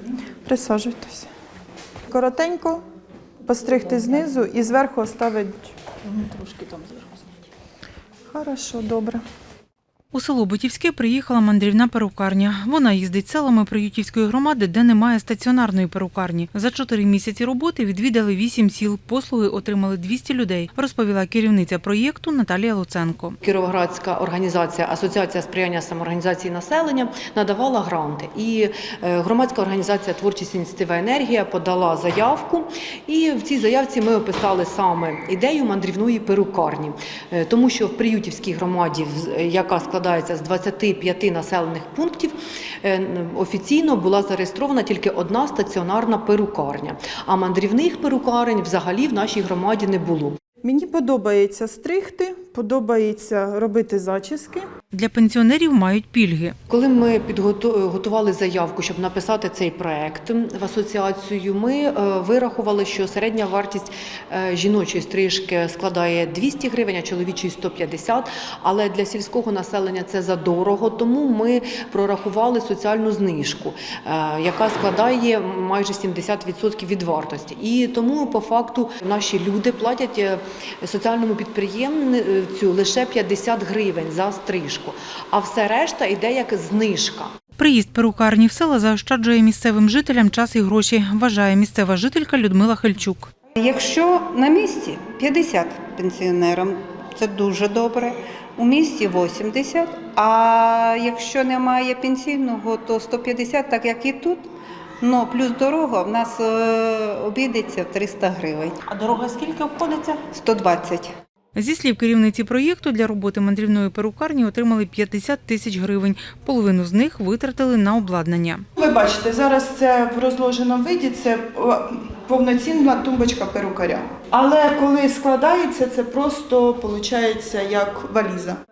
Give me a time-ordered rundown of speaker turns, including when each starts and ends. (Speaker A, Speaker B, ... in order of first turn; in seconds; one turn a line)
Speaker A: 0.4-1.3
Speaker A: 2.1-2.8
Speaker A: 3.5-7.0
Speaker A: 8.3-9.2
Speaker B: 10.1-23.4
Speaker C: 23.4-50.4
Speaker A: 50.6-54.7
Speaker B: 54.9-56.5
Speaker C: 56.7-87.3
Speaker B: 87.6-93.3
Speaker D: 93.6-108.8
Speaker B: 108.9-110.2
Speaker D: 110.3-111.2
Speaker B: 111.5-118.6
Speaker A: 118.8-128.6